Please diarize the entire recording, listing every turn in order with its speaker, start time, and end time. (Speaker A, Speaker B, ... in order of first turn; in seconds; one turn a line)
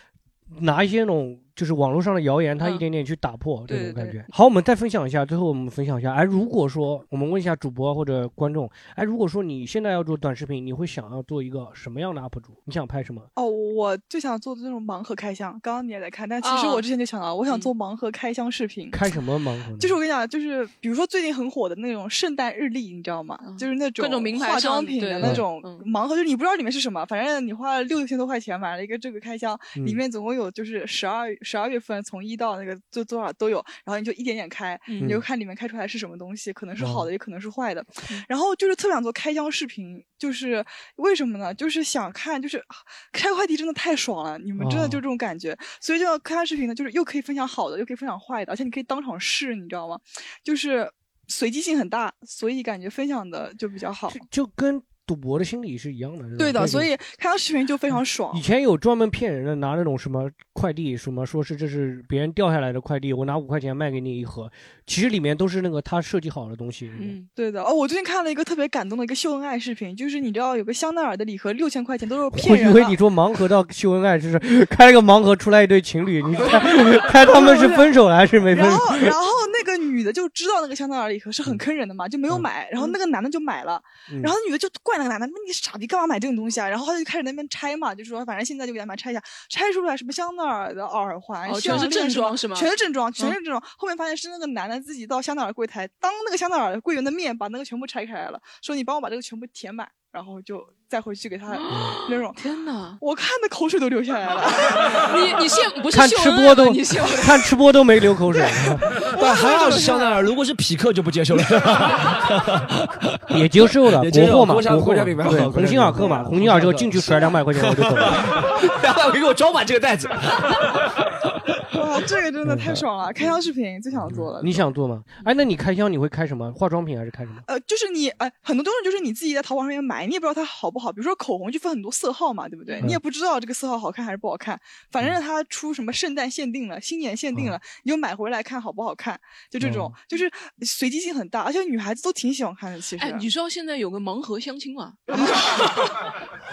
Speaker A: 0.5-13.3
Speaker B: 3.7-4.3
Speaker C: 13.3-19.0
Speaker B: 16.4-16.9
Speaker A: 18.9-20.0
Speaker C: 19.8-54.2
Speaker B: 23.4-25.8
Speaker A: 29.7-30.0
Speaker A: 36.8-37.1
Speaker A: 44.6-45.0
Speaker A: 54.1-56.9
Speaker C: 56.4-58.4
Speaker A: 58.3-67.2
Speaker B: 67.0-67.3
Speaker C: 67.3-73.0
Speaker A: 72.3-79.2
Speaker C: 76.6-78.0
Speaker C: 78.5-102.4
Speaker B: 91.5-93.4
Speaker B: 101.5-103.0
Speaker A: 101.7-102.0
Speaker C: 103.0-105.2
Speaker B: 104.9-107.5
Speaker A: 105.9-108.9
Speaker D: 109.0-121.0
Speaker C: 109.1-110.2
Speaker A: 113.3-118.4
Speaker C: 121.7-124.7
Speaker A: 122.4-122.8
Speaker A: 124.4-127.4
Speaker C: 127.5-143.3
Speaker B: 132.7-132.9
Speaker A: 139.6-139.9
Speaker B: 143.0-146.1